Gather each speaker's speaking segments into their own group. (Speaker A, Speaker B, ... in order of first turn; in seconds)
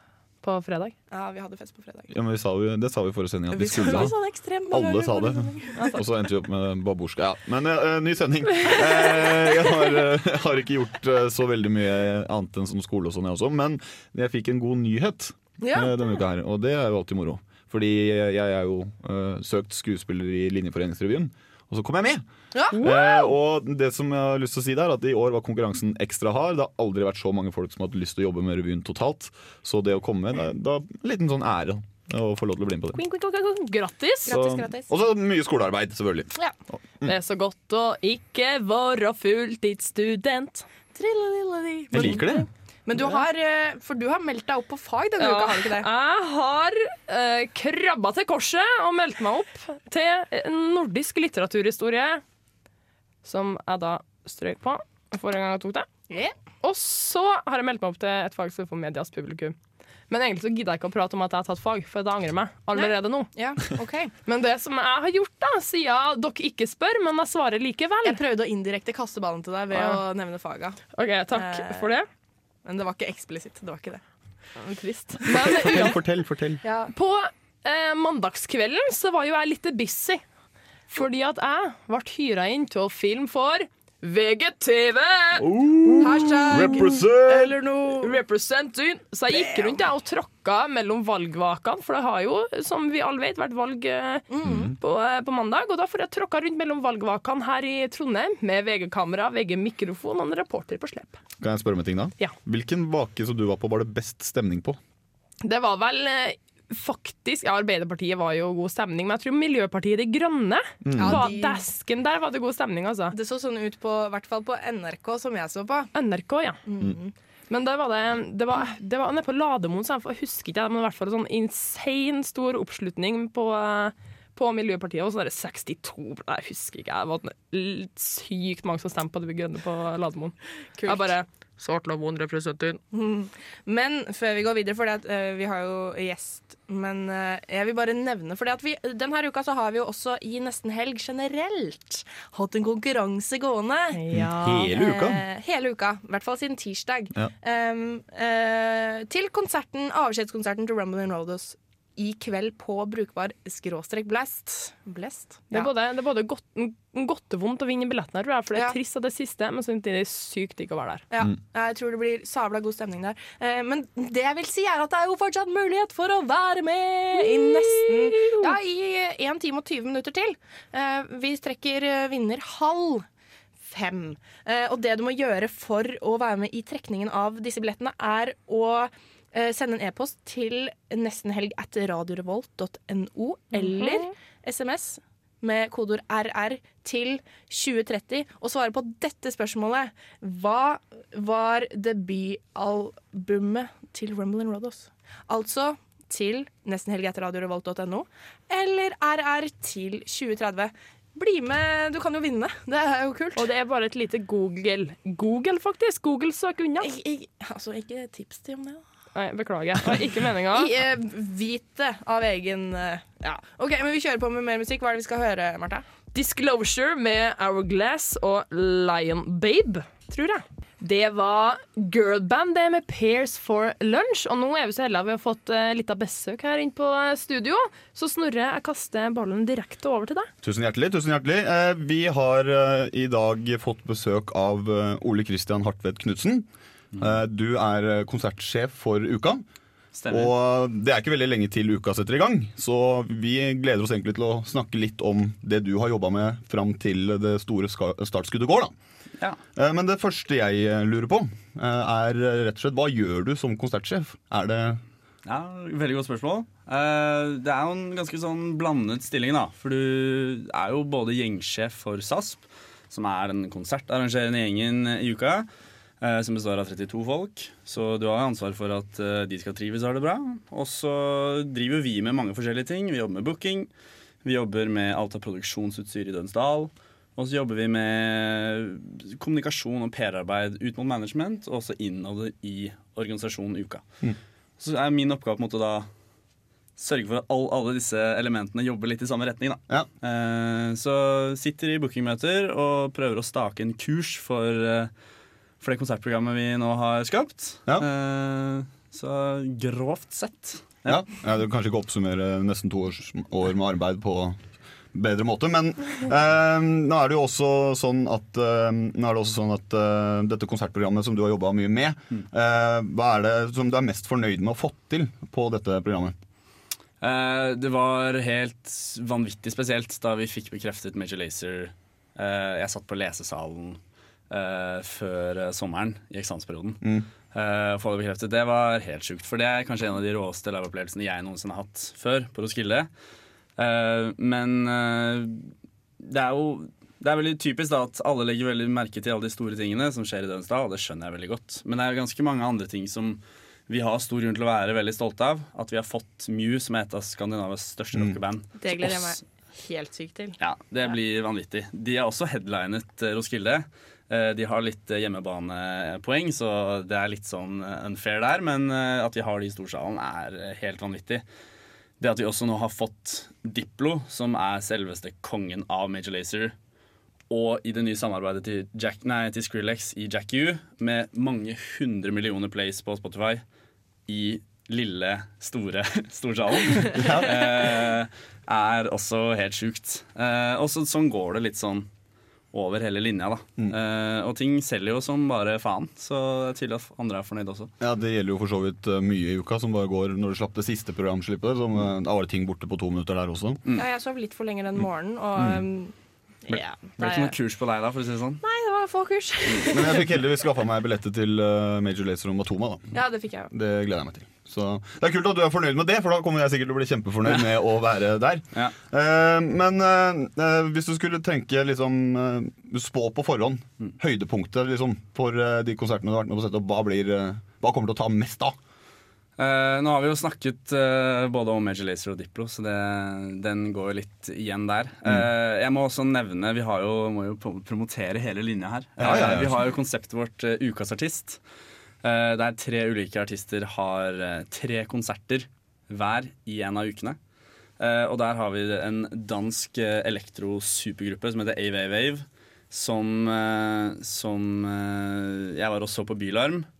Speaker A: 0.4-0.9, 22.7-23.3, 32.9-34.3, 37.0-40.6, 43.0-43.2, 45.2-52.2, 53.2-55.9, 56.6-59.5, 60.1-63.3, 64.2-68.2, 69.7-70.0, 70.9-72.1, 74.6-76.0, 76.9-80.2, 80.9-86.8, 88.0-101.2, 105.4-113.1, 115.9-116.6, 117.5-132.8, 143.9-144.7, 155.5-161.0, 167.1-168.5, 183.5-184.1, 203.3-206.9, 209.1-210.7, 216.1-230.3
Speaker B: 1.1-2.1, 3.5-6.0, 9.0-9.3, 15.6-15.9, 22.5-22.8, 34.2-34.9, 40.9-45.9, 56.1-56.3, 62.7-64.1, 68.0-70.8, 71.3-71.9, 72.6-74.0, 75.3-75.9, 76.6-76.9, 86.0-88.2, 89.3-89.8, 94.3-94.7, 111.0-111.6, 113.1-115.9, 116.7-117.1, 130.8-131.1, 132.9-144.0, 144.7-155.7, 161.1-173.0, 173.6-203.5, 206.8-208.8, 210.5-215.8, 348.6-350.4, 393.8-395.9, 396.4-397.3, 398.4-400.1, 402.9-403.5
Speaker C: 2.1-4.2, 4.7-33.0, 34.3-37.1, 41.9-42.5, 75.5-76.6, 85.4-87.6, 101.4-104.8, 110.8-111.3, 144.1-145.2, 230.4-239.4, 240.1-248.7, 249.6-254.8, 300.9-304.4, 304.9-316.1, 326.8-327.1, 376.9-377.4, 387.8-393.6, 395.4-395.6, 399.6-402.9, 403.5-418.6, 429.0-429.6
Speaker D: 239.9-240.3, 255.2-265.5, 266.0-273.7, 274.2-283.8, 284.6-285.9, 286.8-294.9, 295.6-301.1, 317.0-332.9, 333.6-349.2, 350.4-361.2, 362.0-366.5, 367.3-373.4, 374.1-381.9, 382.5-387.7, 397.0-398.4, 419.4-431.4, 432.0-437.2, 437.8-446.7